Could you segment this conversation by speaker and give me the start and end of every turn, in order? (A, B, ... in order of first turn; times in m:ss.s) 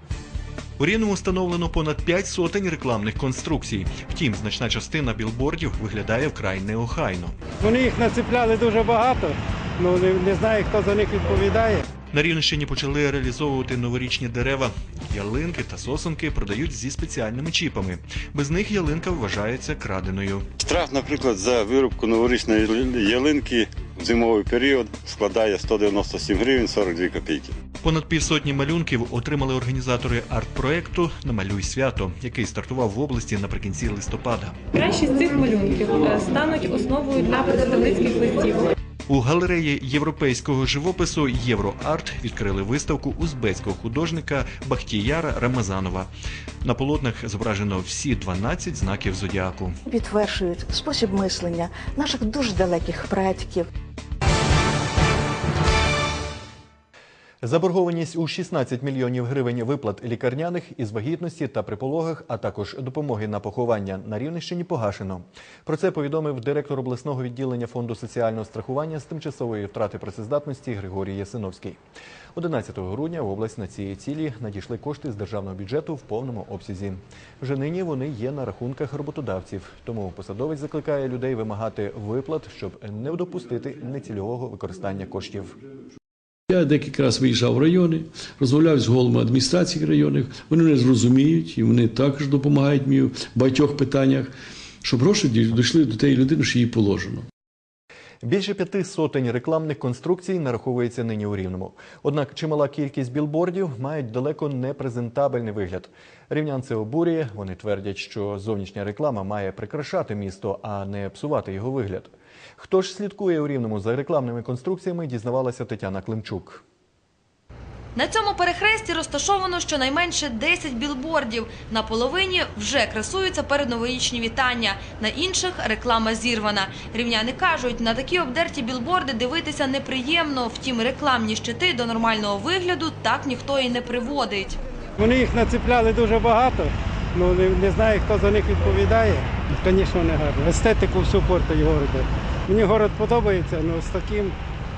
0:00.8-0:07.4 A
0:07.6-0:11.8 B
0:12.1-0:20.5 A
0:20.6-0:27.5 C
0:27.8-0:34.6 A
0:34.7-0:38.7 D
0:39.1-0:46.1 A
0:46.6-0:49.8 A
0:49.9-0:53.7 E
0:57.4-1:11.8 A
1:12.4-1:25.6 A
1:26.5-1:37.3 F
1:38.2-1:56.6 A
1:58.0-2:14.6 G
2:15.0-2:24.4 B